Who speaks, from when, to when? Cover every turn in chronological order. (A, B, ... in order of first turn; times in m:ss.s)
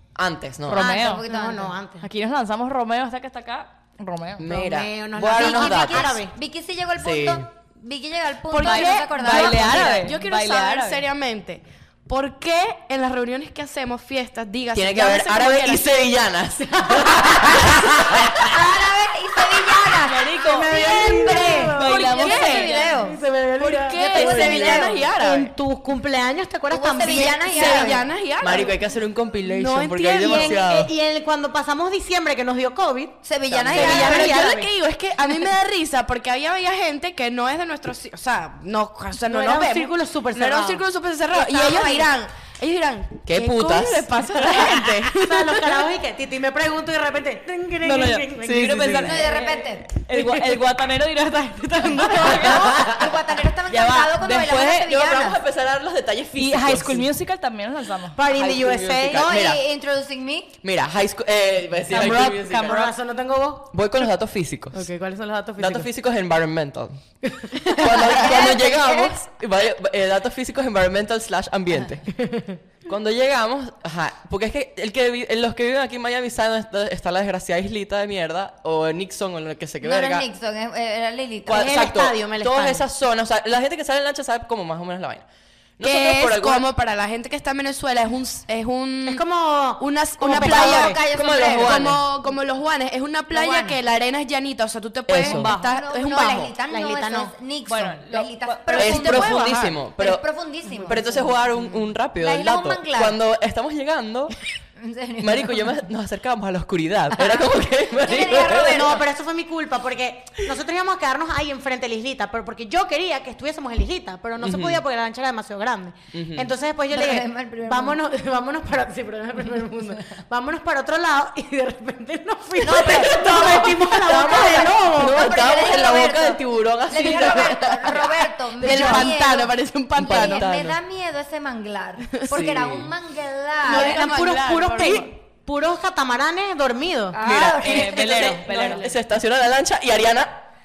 0:00.1-0:00.9 A
0:00.7-0:01.2 B
0:00.7-0:01.8 C
0:00.8-0:02.1 D
0:02.0-0:04.5 B
0:04.4-0:06.2 A
0:04.4-0:06.3 D
0:05.3-0:10.0 C
0:07.0-0:07.4 A
0:08.5-0:15.8 E
0:08.6-0:11.0 B
0:14.7-0:18.5 A
0:16.8-0:18.0 D
0:18.4-0:23.2 C
0:20.0-0:22.9 B
0:20.3-0:28.0 D
0:21.8-0:22.8 E
0:23.6-0:25.5 E
0:24.0-0:25.0 C
0:26.7-0:28.0 C
0:27.4-0:28.7 E
0:28.4-0:30.9 A
0:29.4-0:30.6 E
0:30.2-0:33.2 D
0:33.2-0:34.5 C
0:33.5-0:34.3 A
0:33.7-0:34.7 D
0:33.7-0:45.8 E
0:39.2-0:40.8 D
0:41.3-0:42.1 C
0:43.2-0:44.2 A
0:45.1-0:49.2 D
0:47.8-0:52.9 B
0:48.4-0:49.3 A
0:49.0-0:49.9 C
0:50.1-0:50.4 D
0:52.2-0:55.4 C
0:52.3-0:53.1 A
0:53.7-0:54.6 B
0:54.1-0:57.1 A
0:56.3-0:58.2 B
0:58.2-0:59.2 D
0:58.3-0:59.6 A
0:59.1-1:00.5 C
1:00.6-1:02.8 A
1:01.9-1:02.9 B
1:02.0-1:03.7 D
1:03.7-1:04.9 A
1:04.7-1:05.9 D
1:05.6-1:07.0 A
1:07.3-1:08.2 D
1:07.7-1:12.1 A
1:07.8-1:09.2 C
1:12.2-1:12.6 D
1:12.8-1:20.3 A
1:19.8-1:21.8 C
1:21.4-1:25.2 A
1:21.5-1:22.8 D
1:25.8-1:26.6 A
1:25.8-1:29.2 E
1:29.0-1:31.0 D
1:29.8-1:36.6 E
1:30.3-1:31.9 C
1:30.7-1:32.0 A
1:33.3-1:33.8 C
1:35.1-1:35.5 A
1:35.2-1:35.6 B
1:35.4-1:41.3 C
1:36.7-1:37.3 D
1:37.7-1:39.4 B
1:38.7-1:40.2 A
1:38.8-1:39.7 E
1:40.8-1:44.3 A
1:42.1-1:43.2 C
1:44.8-1:45.7 C
1:45.2-1:49.0 A
1:47.9-1:49.0 C
1:48.5-2:05.3 D
1:54.4-1:54.8 A
1:56.1-1:56.5 A
1:56.9-1:58.0 C
2:02.6-2:14.4 C
2:02.6-2:09.0 A
2:08.6-2:10.4 E
2:10.0-2:10.8 A
2:12.3-2:12.9 A
2:13.6-2:17.2 D
2:13.7-2:15.1 E
2:17.1-2:18.3 C
2:17.2-2:20.4 A
2:17.2-2:18.9 B
2:18.4-2:18.9 E